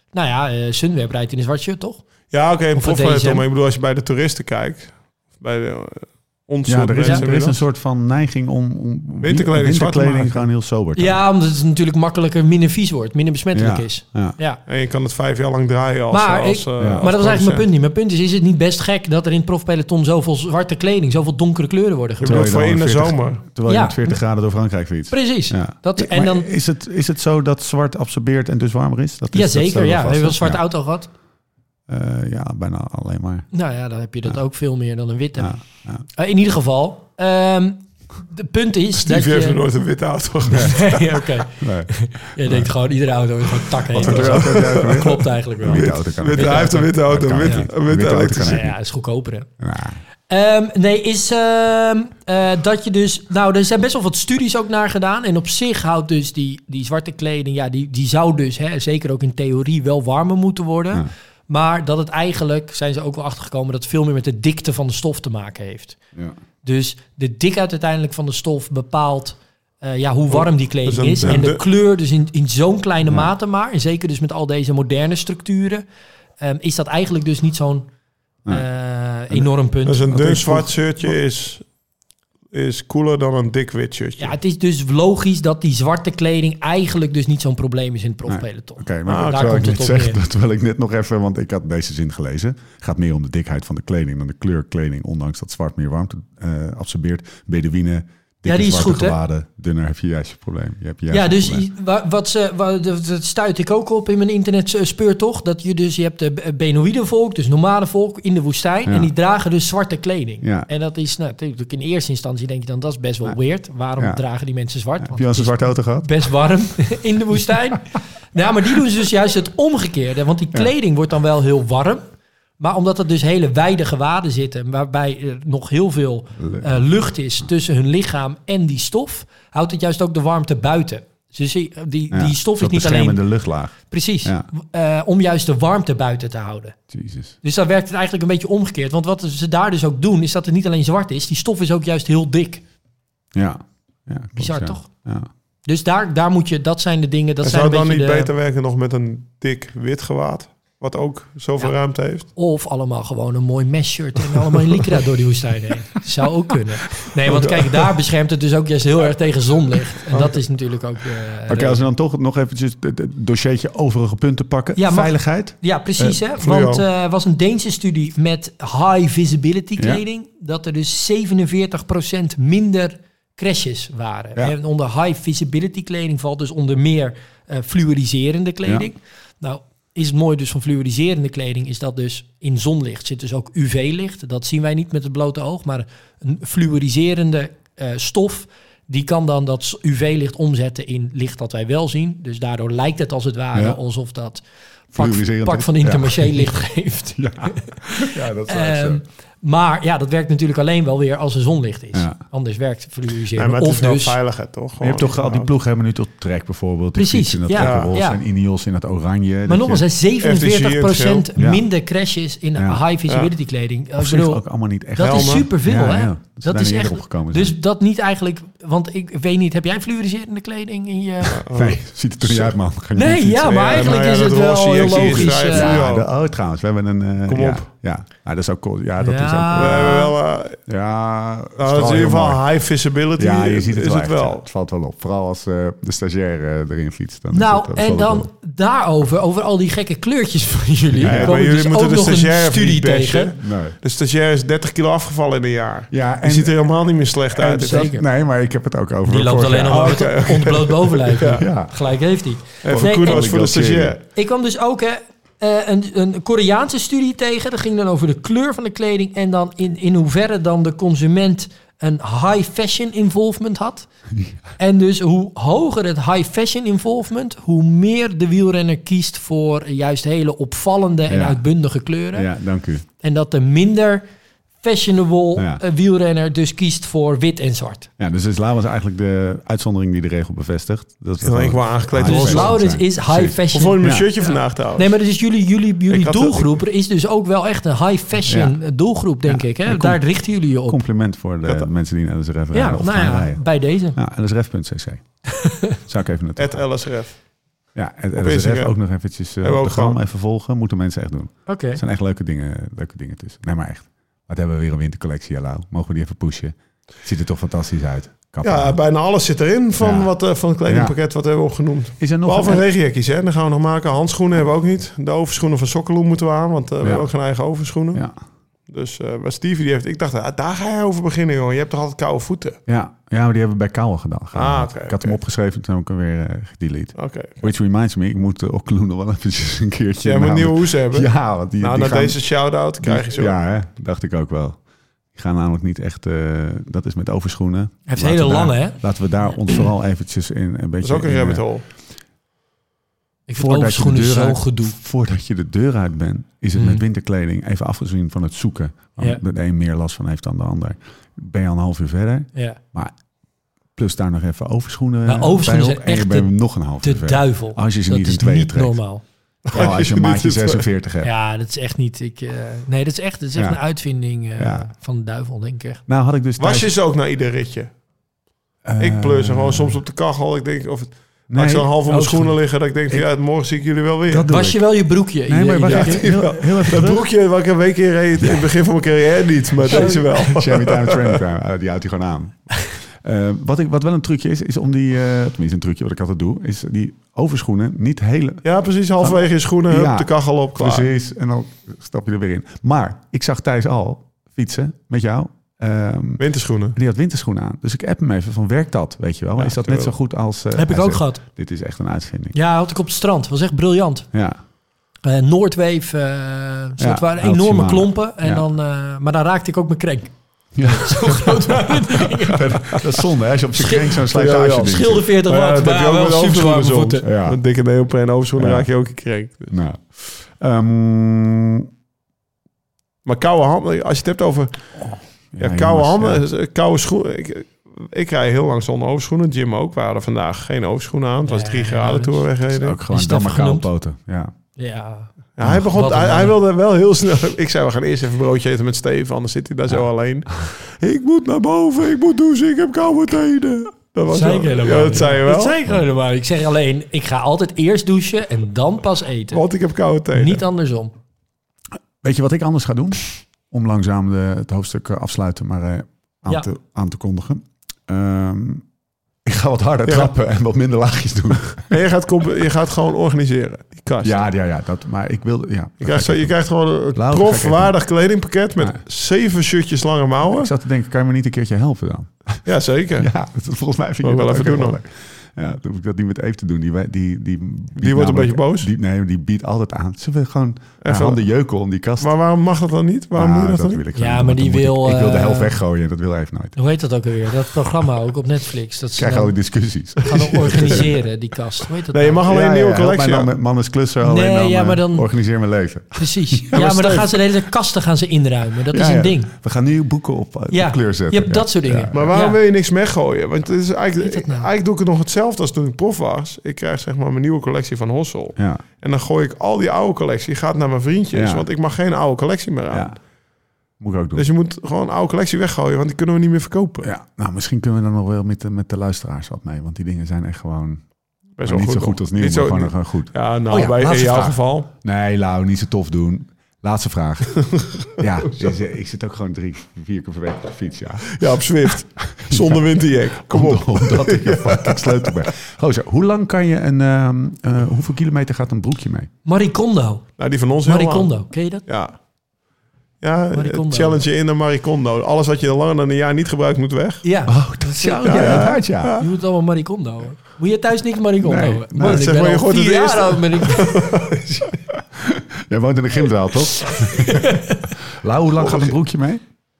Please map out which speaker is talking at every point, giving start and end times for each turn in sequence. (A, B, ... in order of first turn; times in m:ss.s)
0:00.1-0:02.0 A
0:02.3-0:07.6 B
0:02.7-0:03.4 A
0:06.7-0:11.2 C
0:09.2-0:10.5 B
0:11.0-0:14.6 A
0:13.5-0:14.4 C
0:14.7-0:17.7 B
0:16.1-0:22.6 A
0:16.8-0:17.1 C
0:22.2-0:23.4 B
0:22.2-0:30.6 C
0:23.7-0:24.1 A
0:25.1-0:26.5 A
0:29.3-0:31.1 A
0:31.9-0:33.5 C
0:33.5-0:35.6 A
0:35.4-0:36.0 C
0:36.1-0:39.6 A
0:39.0-0:41.2 B
0:40.5-0:40.8 C
0:40.5-0:47.7 A
0:41.6-0:42.7 C
0:43.9-0:48.7 C
0:44.0-0:48.6 B
0:48.4-0:49.5 A
0:49.6-0:50.0 C
0:50.3-1:06.0 A
1:06.6-1:15.8 A
1:10.3-1:11.6 B
1:13.0-1:13.3 C
1:16.4-1:17.9 A
1:18.5-1:20.7 A
1:19.8-1:21.6 B
1:22.5-1:24.3 B
1:24.2-1:30.2 A
1:28.3-1:41.7 C
1:29.0-1:29.6 B
1:38.4-1:39.2 A
1:41.1-2:02.0 A
1:48.9-1:49.1 C
1:50.4-1:50.7 C
1:55.0-1:56.3 C
2:02.6-2:13.2 A
2:06.4-2:06.8 C
2:12.1-2:14.5 C
2:13.9-2:16.8 A
2:16.9-2:17.4 C
2:17.4-2:22.6 A
2:23.3-2:25.3 C
2:24.4-2:24.9 A
2:25.7-2:28.3 A
2:27.4-2:32.3 B
2:32.3-2:41.8 A
2:37.3-2:37.8 B
2:41.5-2:46.2 C
2:44.8-3:24.2 A
2:46.4-2:46.8 B
2:49.8-2:50.0 C
3:13.5-3:13.8 C
3:14.9-3:16.5 C
3:17.2-3:19.0 C
3:21.9-3:22.2 C
3:23.3-3:25.5 B
3:24.8-3:29.9 C
3:27.0-3:28.2 A
3:27.6-3:27.9 B
3:29.5-3:41.4 A
3:30.2-3:31.3 B
3:31.4-3:31.7 C
3:32.6-3:32.8 C
3:34.0-3:37.6 C
3:35.0-3:35.5 B
3:41.3-3:42.5 B
3:41.5-3:43.9 C
3:42.9-3:45.8 A
3:43.4-3:46.1 B
3:44.9-3:50.1 C
3:47.3-3:47.7 B
3:49.0-3:50.1 A
3:49.5-3:50.6 B
3:50.7-3:52.4 C
3:51.6-3:54.4 B
3:53.2-3:58.3 C
3:57.3-4:03.3 A
4:01.0-4:01.4 C
4:01.0-4:07.9 B
4:03.4-4:03.8 C
4:05.9-4:06.6 C
4:07.3-4:09.9 C
4:07.5-4:08.0 A
4:09.0-4:13.3 A
4:09.7-4:11.4 B
4:11.4-4:11.8 C
4:12.6-4:14.0 C
4:12.6-4:14.0 B
4:14.1-4:23.9 A
4:24.6-4:32.3 A
4:31.1-4:31.4 C
4:32.1-4:32.8 C
4:33.0-4:34.0 A
4:34.6-4:37.9 A
4:35.4-4:35.6 C
4:38.0-4:44.1 C
4:41.2-4:42.6 B
4:42.0-4:50.8 A
4:43.5-4:44.9 B
4:45.9-4:46.5 B
4:48.3-4:48.6 C
4:49.3-4:56.7 C
4:51.4-4:51.7 B
4:52.5-4:54.0 A
4:55.4-4:55.7 A
4:56.4-4:57.2 B
4:57.7-5:08.8 C
4:58.2-4:58.8 B
4:59.4-5:00.0 B
5:01.4-5:01.8 A
5:08.4-5:18.0 B
5:09.8-5:10.1 C
5:10.7-5:11.0 C
5:12.0-5:12.7 C
5:16.8-5:17.1 C
5:18.7-5:22.6 B
5:22.7-5:32.2 C
5:24.3-5:25.2 B
5:27.0-5:27.5 B
5:30.0-5:33.4 B
5:32.8-5:34.6 C
5:35.1-5:41.4 C
5:37.9-5:38.8 A
5:40.8-5:41.6 B
5:43.3-5:44.8 A
5:43.3-5:52.9 C
5:46.6-5:46.8 A
5:52.3-5:52.6 A
5:53.7-5:58.8 C
5:55.0-5:59.0 A
5:59.5-6:01.1 C
5:59.5-6:00.7 B
6:01.0-6:05.8 A
6:03.4-6:03.6 C
6:04.4-6:04.7 C
6:05.9-6:06.7 C
6:06.4-6:07.7 B
6:08.6-6:09.8 C
6:08.8-6:14.3 B
6:11.3-6:12.3 C
6:14.1-6:17.0 C
6:14.3-6:16.2 A
6:15.6-6:21.2 B
6:18.2-6:18.5 C
6:19.7-6:20.3 A
6:19.7-6:28.4 C
6:28.4-6:30.9 B
6:29.0-6:36.2 C
6:36.2-6:36.7 B
6:36.7-6:42.3 C
6:39.4-6:39.9 B
6:40.5-6:41.2 A
6:42.3-6:44.1 A
6:44.1-6:44.4 C
6:45.0-6:52.9 A
6:46.8-6:48.4 C
6:50.6-6:55.0 C
6:53.6-6:54.0 A
6:54.1-6:59.5 B
6:54.6-6:57.1 A
6:57.0-6:57.4 C
6:58.4-6:58.7 C
6:59.5-7:01.7 C
7:03.0-7:04.8 B
7:04.8-7:06.2 C
7:05.4-7:12.8 B
7:11.3-7:12.3 A
7:12.5-7:14.3 C
7:12.9-7:13.7 A
7:14.6-7:15.1 A
7:15.4-7:25.6 B
7:15.4-7:15.7 C
7:15.7-7:16.3 A
7:24.1-7:29.4 A
7:29.3-7:30.4 B
7:30.1-7:30.9 A
7:32.0-7:38.7 C
7:39.2-7:41.7 C
7:39.9-7:40.1 B
7:41.6-7:44.2 B
7:44.0-7:46.3 C
7:45.8-7:50.5 B
7:46.9-7:47.7 C
7:50.2-7:52.4 C
7:52.4-7:53.1 B
7:53.0-8:02.1 C
7:54.0-7:54.8 B
7:57.8-7:58.7 B
8:00.8-8:01.2 B
8:02.0-8:03.8 B
8:03.1-8:06.6 C
8:04.0-8:05.6 A
8:06.6-8:09.3 A
8:09.0-8:10.9 C
8:10.0-8:12.2 A
8:11.9-8:13.3 B
8:12.3-8:17.0 C
8:14.0-8:15.1 A
8:16.0-8:19.3 A
8:16.5-8:17.1 B
8:18.7-8:22.1 C
8:20.5-8:22.4 A
8:21.9-8:33.0 B
8:24.0-8:24.5 A
8:28.4-8:28.6 C
8:31.1-8:31.5 C
8:32.7-8:33.0 C
8:33.8-8:34.3 C
8:34.1-8:36.9 B
8:36.8-8:40.9 C
8:41.4-8:44.7 B
8:41.4-8:51.3 C
8:51.1-8:55.3 B
8:52.0-8:52.6 C
8:53.3-8:59.1 C
8:59.2-9:00.1 A
9:00.2-9:02.0 B
9:00.6-9:01.6 A
9:03.0-9:07.0 B
9:03.3-9:04.0 A
9:07.0-9:13.9 A
9:07.3-9:09.0 C
9:08.0-9:09.1 B
9:11.2-9:12.0 C
9:11.8-9:14.5 B
9:14.9-9:19.2 C
9:16.9-9:17.7 A
9:18.4-9:18.8 B